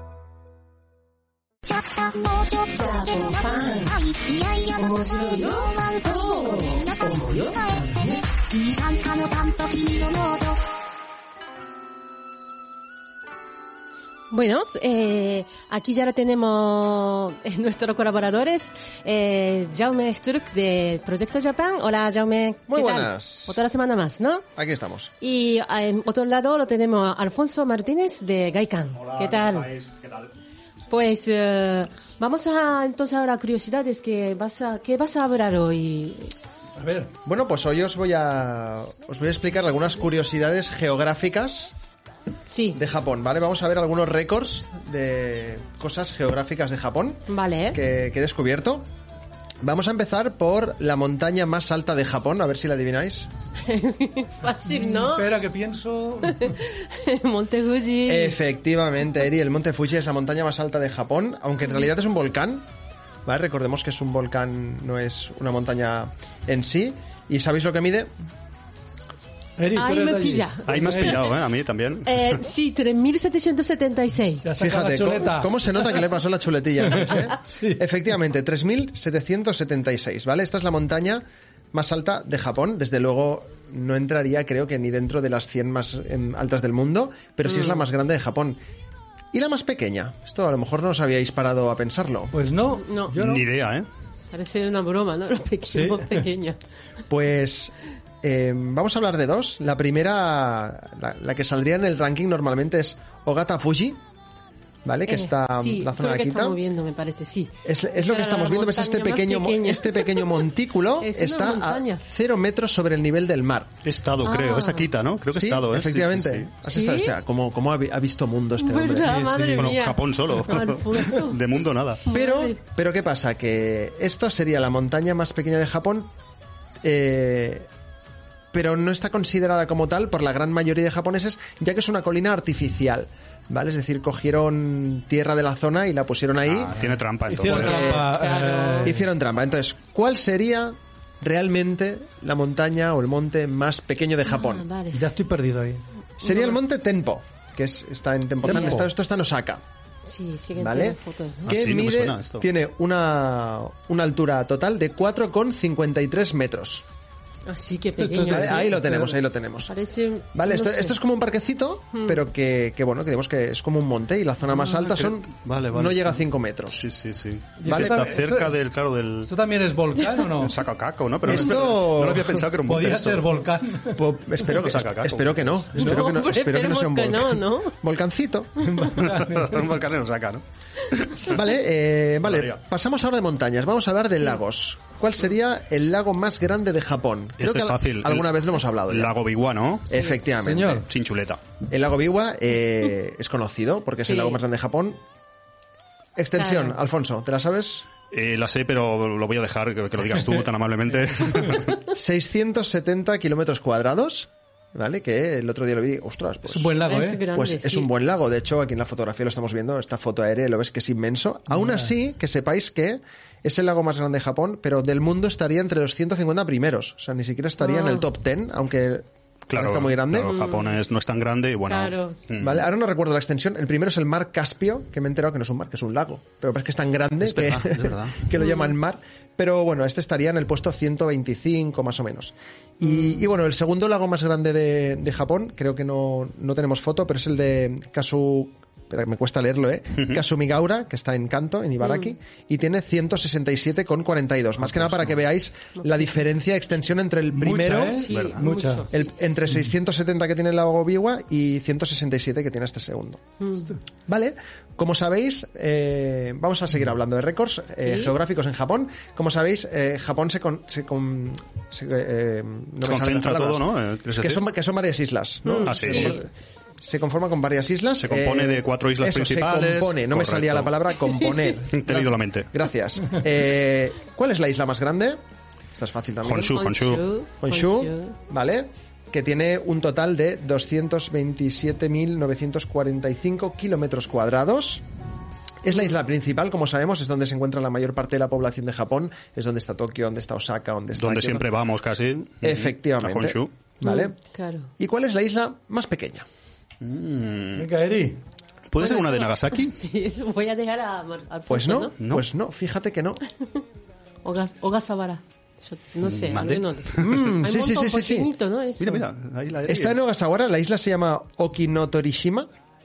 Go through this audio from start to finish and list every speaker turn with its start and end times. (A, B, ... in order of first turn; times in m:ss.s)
0:01.9-0:02.5 A
0:02.6-0:04.1 B
0:04.7-0:08.7 B
0:08.9-0:10.5 A
0:14.3-0:24.4 B
0:22.7-0:23.6 C
0:24.6-0:25.1 C
0:25.2-0:29.7 B
0:29.1-0:30.3 D
0:30.9-0:36.3 B
0:36.8-0:37.1 E
0:37.2-0:41.7 C
0:42.5-0:42.8 B
0:42.7-0:48.8 C
0:47.3-0:47.8 B
0:49.6-0:53.3 C
0:53.6-0:55.3 B
0:54.6-0:56.5 E
0:56.2-0:58.4 B
0:58.0-1:02.6 C
1:03.2-1:08.1 C
1:09.6-1:11.3 E
1:09.7-1:11.3 B
1:10.7-1:12.4 D
1:12.0-1:14.5 B
1:14.4-1:16.0 E
1:14.6-1:28.6 C
1:16.8-1:17.8 E
1:27.4-1:27.8 B
1:29.3-1:32.3 C
1:32.3-1:33.5 E
1:32.7-1:33.2 B
1:33.1-1:33.9 D
1:34.3-1:36.6 B
1:35.6-1:36.2 E
1:37.1-1:44.0 C
1:44.8-1:46.6 C
1:45.0-1:50.4 B
1:47.6-1:53.7 C
1:51.0-1:52.0 B
1:53.8-1:56.5 D
1:54.2-1:54.9 B
1:55.3-1:59.2 C
1:56.6-1:57.2 B
1:58.6-2:01.4 B
1:58.9-1:59.8 E
1:59.6-2:02.0 D
2:02.0-2:02.6 B
2:02.1-2:06.1 C
2:06.8-2:07.7 C
2:08.5-2:16.8 C
2:16.4-2:17.9 D
2:16.8-2:18.9 E
2:17.4-2:18.1 C
2:17.5-2:18.9 B
2:18.8-2:24.6 C
2:24.2-2:25.0 B
2:24.9-2:25.8 E
2:26.2-2:29.6 C
2:26.2-2:26.6 B
2:28.4-2:28.9 E
2:30.0-2:31.6 B
2:30.6-2:36.8 C
2:31.4-2:32.4 D
2:37.4-2:38.7 B
2:38.0-2:39.2 E
2:38.3-2:39.7 C
2:39.7-2:41.0 B
2:40.3-2:46.8 C
2:41.9-2:42.2 B
2:44.7-2:49.3 D
2:47.6-2:48.5 E
2:47.6-2:48.0 C
2:49.2-2:50.6 E
2:50.3-2:53.3 D
2:51.2-2:52.5 C
2:52.6-2:54.1 E
2:53.9-2:58.8 C
2:54.4-2:55.7 D
2:55.7-2:56.2 E
2:55.8-2:57.8 B
2:58.6-2:59.7 E
2:58.9-3:01.4 D
3:01.2-3:09.1 C
3:02.2-3:02.6 D
3:07.4-3:10.1 D
3:09.9-3:10.8 C
3:10.3-3:10.8 E
3:10.8-3:11.4 D
3:11.7-3:15.0 C
3:14.0-3:14.4 B
3:16.2-3:17.9 C
3:16.4-3:16.8 B
3:18.1-3:21.8 D
3:21.9-3:26.8 C
3:26.4-3:27.2 E
3:26.8-3:27.9 B
3:27.3-3:40.3 C
3:37.6-3:38.0 B
3:39.5-3:42.6 D
3:40.3-3:40.8 B
3:41.7-3:42.2 B
3:42.4-4:08.0 C
3:47.2-3:48.3 D
3:48.4-3:48.7 B
4:01.8-4:02.1 B
4:04.6-4:05.1 D
4:05.8-4:06.2 B
4:07.3-4:08.8 E
4:07.9-4:09.3 B
4:08.1-4:08.5 D
4:08.9-4:13.2 C
4:13.4-4:13.8 B
4:14.1-4:26.3 C
4:17.8-4:18.1 B
4:22.8-4:24.4 D
4:25.4-4:26.2 B
4:25.6-4:26.2 D
4:26.8-4:35.2 C
4:28.0-4:30.7 D
4:31.1-4:31.5 B
4:31.7-4:32.5 D
4:35.8-4:36.5 C
4:36.2-4:37.0 D
4:36.4-4:38.1 B
4:37.4-4:44.8 C
4:45.6-4:51.5 C
4:51.0-4:53.5 D
4:52.4-4:54.2 C
4:53.8-4:54.7 B
4:54.8-4:56.2 C
4:56.8-4:57.7 D
4:57.5-4:58.2 E
4:58.7-4:59.8 D
4:58.8-5:01.9 B
5:01.5-5:03.2 C
5:02.0-5:02.2 D
5:04.2-5:09.1 B
5:06.0-5:07.2 D
5:07.0-5:08.3 C
5:08.8-5:10.0 D
5:09.6-5:12.5 C